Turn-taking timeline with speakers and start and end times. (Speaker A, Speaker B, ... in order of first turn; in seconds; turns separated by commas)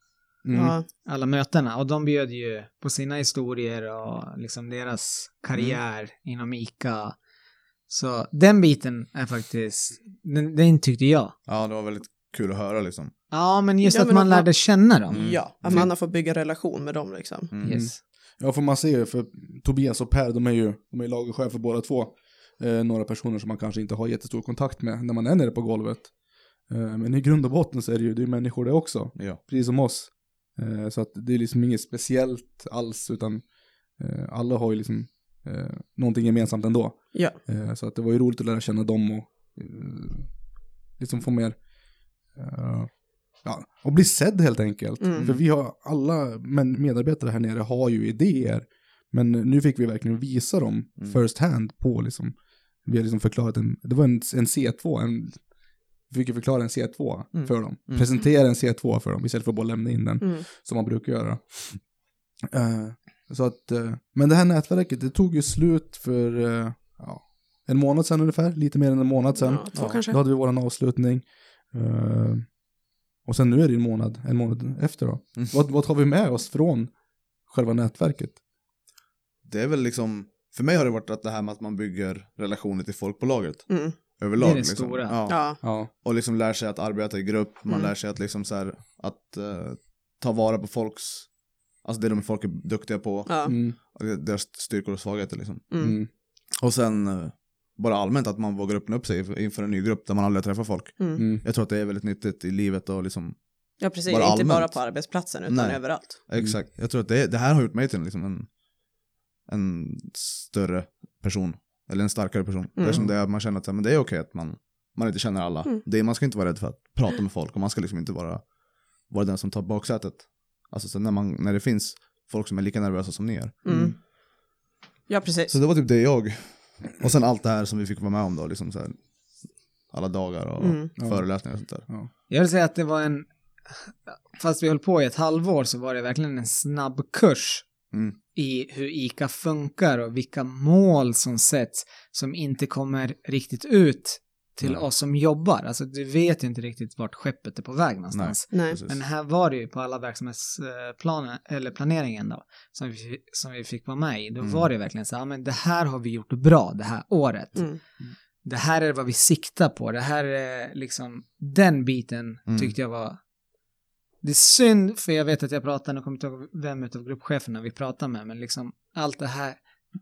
Speaker A: 0.4-0.8, Speaker B: 0.5-0.9, Speaker C: 1.1-7.2, Speaker D: 5.5-5.8, Speaker C: 7.9-11.3, Speaker D: 11.5-13.1, Speaker C: 13.3-15.2, Speaker B: 13.8-14.5, Speaker D: 15.1-15.9, Speaker B: 15.1-17.5, Speaker C: 17.6-18.0, Speaker A: 17.7-26.1, Speaker A: 26.7-33.4, Speaker A: 34.0-40.3, Speaker A: 41.0-41.6, Speaker A: 42.4-42.9, Speaker A: 43.4-52.3, Speaker B: 45.0-45.3, Speaker A: 52.9-55.4, Speaker A: 56.1-61.8, Speaker A: 62.5-72.5, Speaker B: 69.4-70.2, Speaker D: 69.8-70.0, Speaker A: 73.3-76.9, Speaker A: 77.5-78.4, Speaker D: 79.4-91.3, Speaker B: 83.7-84.0, Speaker C: 84.4-85.2, Speaker B: 85.3-85.6, Speaker A: 85.6-85.9, Speaker D: 91.8-95.7, Speaker B: 93.3-93.6, Speaker A: 93.5-93.8, Speaker B: 95.7-96.0, Speaker A: 95.8-96.1, Speaker D: 96.6-103.4, Speaker B: 101.0-101.2, Speaker A: 101.2-101.4, Speaker B: 103.8-106.2, Speaker D: 104.0-108.5, Speaker D: 109.5-118.5, Speaker B: 112.8-113.1, Speaker D: 119.1-123.6, Speaker B: 123.6-124.0, Speaker A: 123.7-123.9, Speaker B: 125.1-125.5, Speaker D: 125.5-129.0, Speaker D: 129.9-131.9, Speaker B: 130.6-130.9, Speaker A: 131.0-131.2, Speaker C: 132.3-137.7, Speaker D: 137.9-138.2, Speaker C: 138.3-157.7, Speaker D: 148.1-149.0, Speaker B: 148.5-148.8, Speaker C: 158.4-163.2, Speaker D: 162.5-162.7, Speaker C: 164.2-169.6